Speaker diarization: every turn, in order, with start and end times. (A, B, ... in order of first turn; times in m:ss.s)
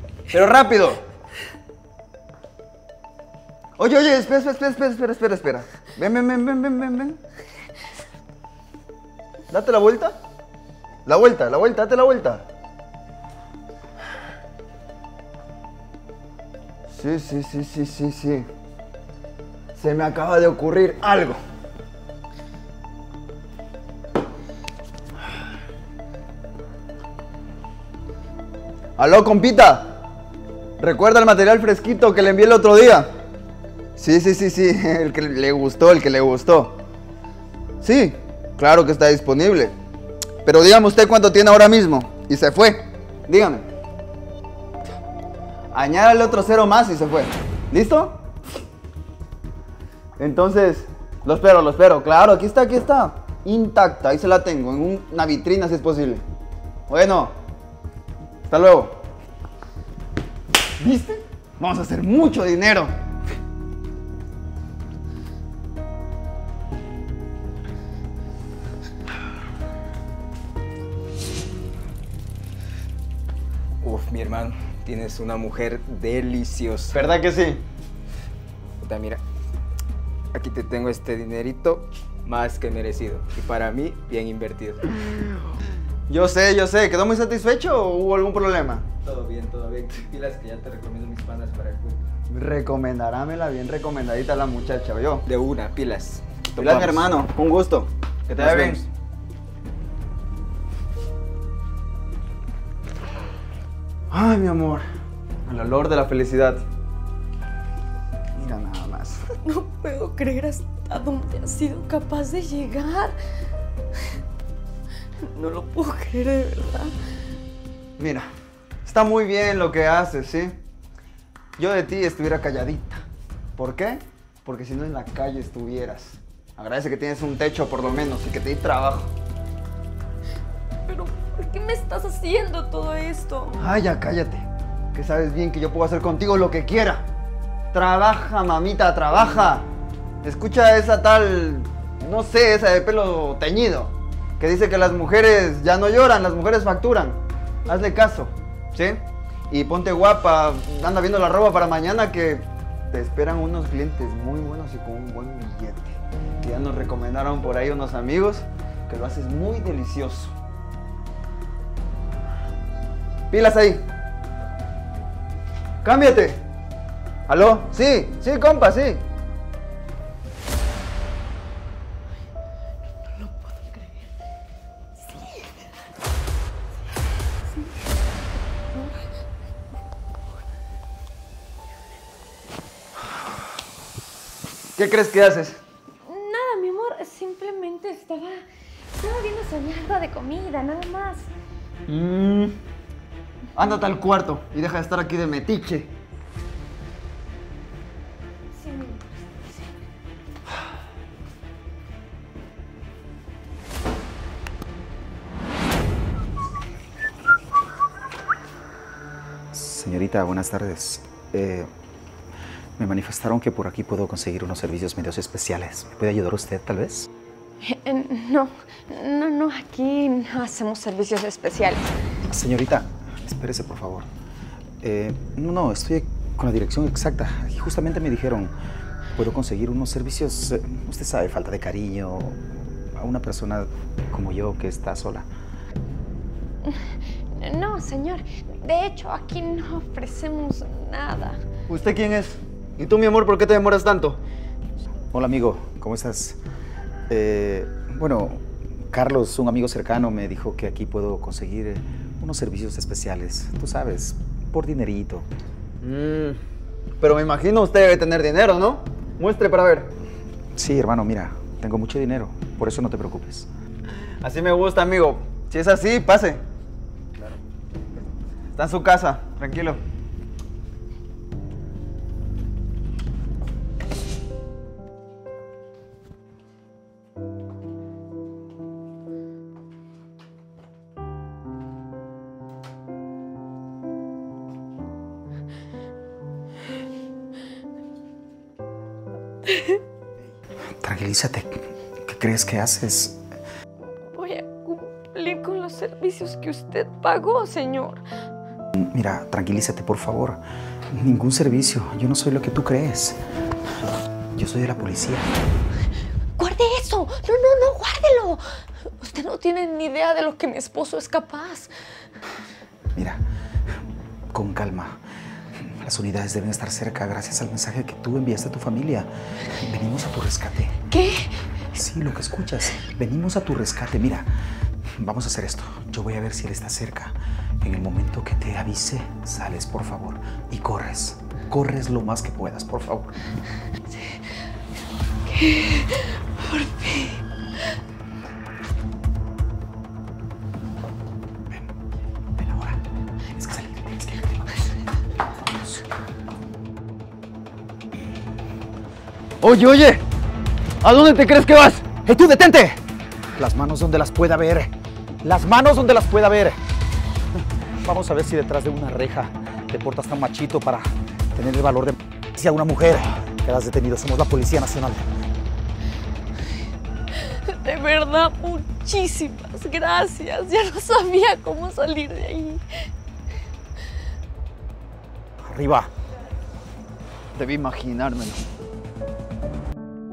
0:00.3-0:01.0 A
0:03.8-0:07.2 A
0:09.5-0:10.2 A
0:11.0-0:12.4 A
0:16.9-0:18.5 A
0:19.8-0:21.4 A
0:29.0-0:30.0 A
0:30.8-0:33.1 A
0:34.0-0:36.8 A
0:37.8-0:39.7 A
0:40.4-0:43.6 A
0:45.7-0:48.2 A
0:50.2-0:56.2 A
0:56.9-0:57.3 A
0:58.5-0:59.0 A
1:00.8-1:02.9 A
1:13.8-1:17.0 B
1:16.9-1:17.6 A
1:18.8-1:19.2 B
1:20.3-1:25.0 B
1:26.1-1:28.9 A
1:29.0-1:32.0 B
1:32.3-1:35.2 A
1:35.3-1:37.0 B
1:36.6-1:38.8 A
1:38.3-1:38.8 B
1:44.1-1:44.8 A
1:45.5-1:46.6 A
1:48.4-1:49.2 A
1:49.4-1:53.1 C
1:55.2-1:56.9 C
1:58.0-1:58.3 A
1:58.8-2:00.6 A
2:01.6-2:09.1 A
2:10.8-2:13.6 C
2:13.6-2:17.0 A
2:17.7-2:19.7 A
2:20.2-2:40.3 A
2:43.3-2:43.8 A
2:45.8-2:46.4 A
2:47.3-2:49.0 A
2:53.0-2:54.1 C
2:55.0-2:55.5 C
3:04.8-3:05.6 A
3:06.0-3:11.3 C
3:11.9-3:12.5 A
3:13.5-3:15.9 A
3:18.5-3:19.2 C
3:29.5-3:31.7 D
3:32.8-3:37.1 D
3:37.6-3:42.0 C
3:42.3-3:44.1 D
3:44.8-3:48.5 D
3:49.2-3:55.3 D
3:56.6-4:01.4 C
4:01.7-4:04.2 A
4:05.1-4:06.4 D
4:07.1-4:15.3 D
4:15.8-4:16.4 A
4:17.0-4:19.9 A
4:20.5-4:23.5 D
4:24.2-4:26.4 A
4:28.5-4:29.8 A
4:49.5-4:49.8 C
4:50.8-4:53.2 D
4:54.0-4:58.0 C
4:58.8-5:03.2 D
5:04.3-5:05.3 D
5:06.4-5:08.4 C
5:09.0-5:11.7 C
5:12.9-5:13.2 D
5:14.3-5:15.0 D
5:15.6-5:20.8 D
5:20.9-5:21.3 C
5:21.7-5:24.3 D
5:25.0-5:33.1 D
5:35.3-5:37.2 C
5:42.3-5:42.8 D
5:43.3-5:44.7 D
5:45.3-5:45.8 D
5:49.4-5:50.0 A
5:50.8-5:51.9 A
5:52.0-5:52.8 D
5:53.4-5:54.7 D
5:55.2-5:56.6 D
5:57.4-6:05.1 D
6:07.1-6:12.6 C
6:15.4-6:15.9 D
6:17.3-6:18.4 A